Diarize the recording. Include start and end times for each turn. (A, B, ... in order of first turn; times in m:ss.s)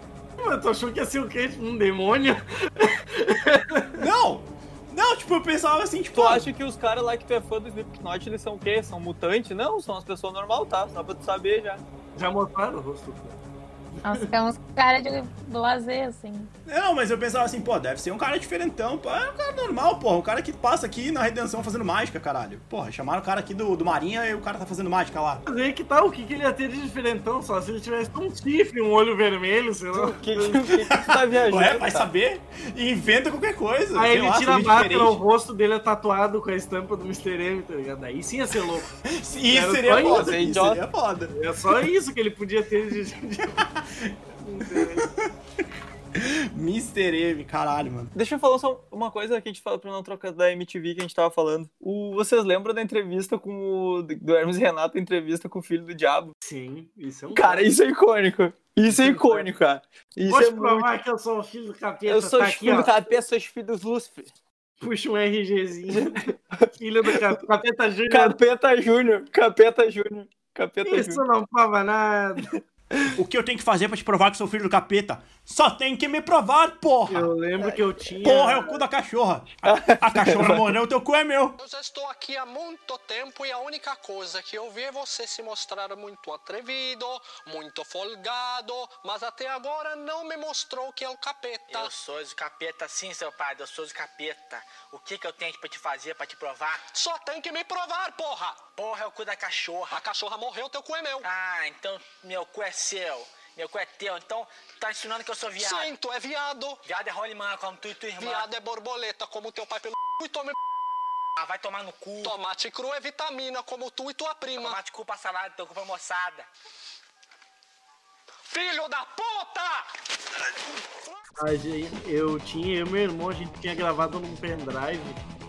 0:00.4-0:03.9 A
0:04.0-0:06.5 B
0:06.2-0:11.8 C
0:12.2-0:13.4 A
0:14.0-0:16.5 D
0:16.7-0:25.4 B
0:25.5-0:30.7 A
0:29.9-0:32.1 C
0:31.1-0:35.2 B
0:34.0-0:38.9 A
0:39.1-0:41.3 B
0:39.5-0:40.4 A
0:40.1-0:40.8 C
0:41.3-0:43.6 A
0:44.4-0:45.1 A
0:44.7-0:45.1 B
0:46.2-0:48.1 B
0:48.2-0:56.3 C
0:56.4-0:57.7 A
0:57.3-1:00.9 C
0:58.9-0:59.5 A
1:00.3-1:03.0 A
1:02.1-1:04.3 C
1:04.8-1:08.4 A
1:05.9-1:06.3 C
1:08.1-1:11.2 C
1:10.9-1:12.5 A
1:13.2-1:17.3 B
1:17.1-1:18.8 A
1:18.2-1:21.6 B
1:19.6-1:20.7 C
1:21.6-1:31.9 E
1:31.7-1:36.9 F
1:36.9-1:38.7 E
1:38.7-1:40.1 F
1:39.9-1:41.3 E
1:41.2-1:45.9 F
1:45.6-1:46.8 E
1:46.8-1:48.5 F
1:48.2-1:50.6 E
1:51.4-1:52.4 F
1:52.2-1:54.8 E
1:54.6-1:56.5 F
1:58.5-1:59.8 E
2:01.4-2:05.2 A